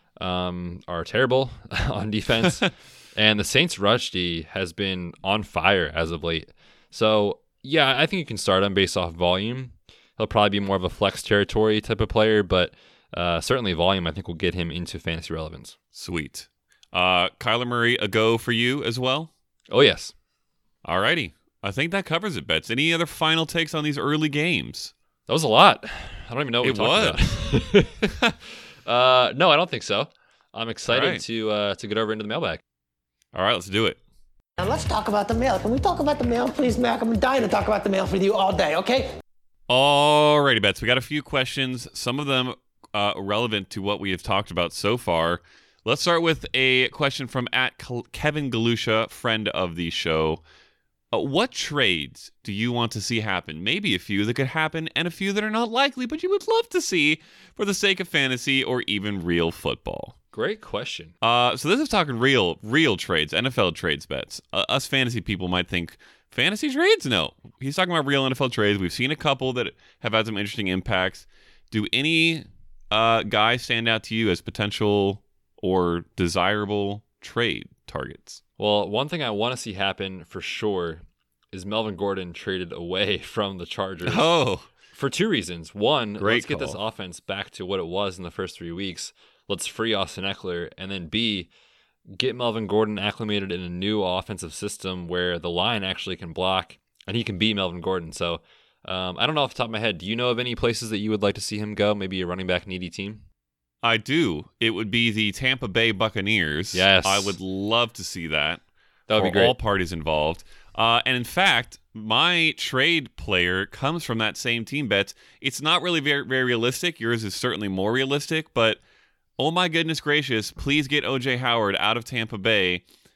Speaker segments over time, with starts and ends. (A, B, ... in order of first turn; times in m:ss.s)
0:00.2-0:15.8 A
0:15.9-0:19.3 B
0:19.7-0:20.1 A
0:20.8-0:24.9 B
0:25.3-0:28.2 A
0:26.6-0:27.3 B
0:28.8-0:32.6 A
0:30.9-0:31.2 B
0:33.3-0:34.0 B
0:34.6-0:39.2 C
0:39.7-0:50.4 B
0:51.1-1:00.1 B
1:00.3-1:01.1 A
1:01.2-1:18.4 B
1:18.6-1:24.3 A
1:24.0-1:24.7 B
1:24.9-1:31.5 A
1:26.2-1:26.8 B
1:32.1-1:43.2 A
1:43.8-1:58.8 B
1:46.7-1:47.4 A
1:49.1-1:49.5 A
1:59.4-2:02.8 B